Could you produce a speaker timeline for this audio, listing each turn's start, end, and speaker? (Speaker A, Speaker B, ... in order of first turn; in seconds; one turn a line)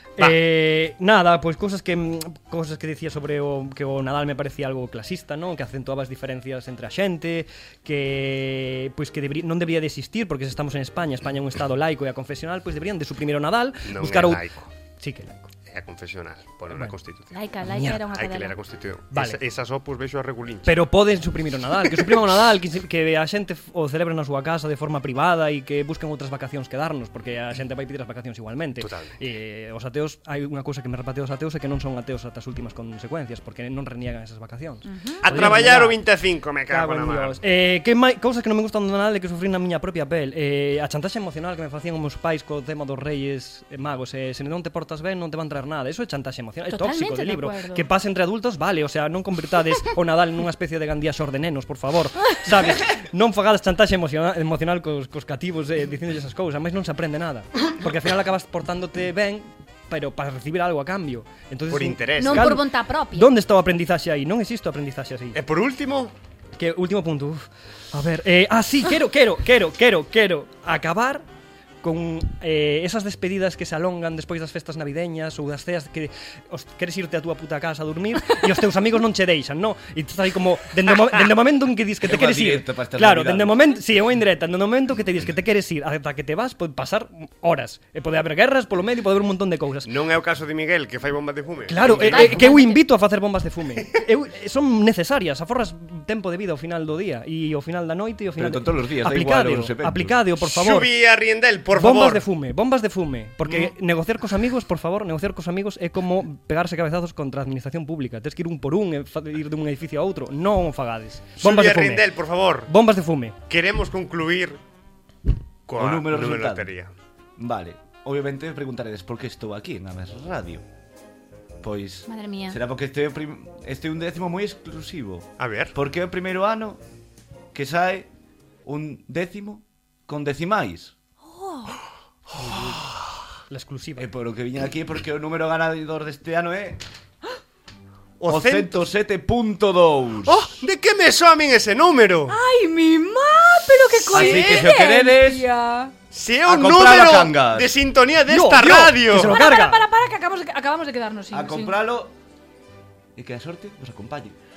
Speaker A: 0.2-15.5
Speaker B: 13.8-14.7
Speaker B: 15.7-17.3
Speaker C: 17.3-18.6
Speaker A: 17.6-18.0
Speaker B: 18.1-20.8
Speaker A: 19.1-19.4
Speaker A: 20.6-36.0
Speaker B: 28.8-29.2
Speaker C: 34.9-35.5
Speaker B: 35.2-37.4
Speaker A: 36.7-65.4
Speaker C: 46.7-47.9
Speaker B: 61.7-62.6
Speaker C: 62.2-63.3
Speaker B: 65.3-66.1
Speaker A: 66.6-71.2
Speaker A: 71.8-89.9
Speaker D: 82.0-83.7
Speaker B: 89.8-92.5
Speaker A: 91.7-100.9
Speaker C: 91.9-92.8
Speaker D: 98.4-100.2
Speaker B: 100.4-102.2
Speaker A: 101.7-112.1
Speaker B: 103.5-103.7
Speaker B: 111.4-112.7
Speaker A: 112.7-113.4
Speaker B: 113.5-114.6
Speaker B: 115.7-116.9
Speaker D: 115.8-116.7
Speaker D: 117.4-120.6
Speaker D: 121.6-126.8
Speaker C: 122.1-122.6
Speaker B: 125.4-125.7
Speaker D: 127.5-128.1
Speaker D: 128.7-130.9
Speaker C: 131.2-131.8
Speaker A: 133.5-134.1
Speaker D: 134.0-136.8
Speaker B: 138.2-138.7
Speaker D: 138.3-140.6
Speaker B: 140.3-142.4
Speaker C: 142.3-145.9
Speaker B: 144.0-144.5
Speaker D: 144.1-145.5
Speaker B: 146.1-149.4
Speaker D: 146.5-147.7
Speaker A: 148.3-149.8
Speaker C: 149.1-151.8
Speaker D: 151.3-152.1
Speaker D: 153.2-154.4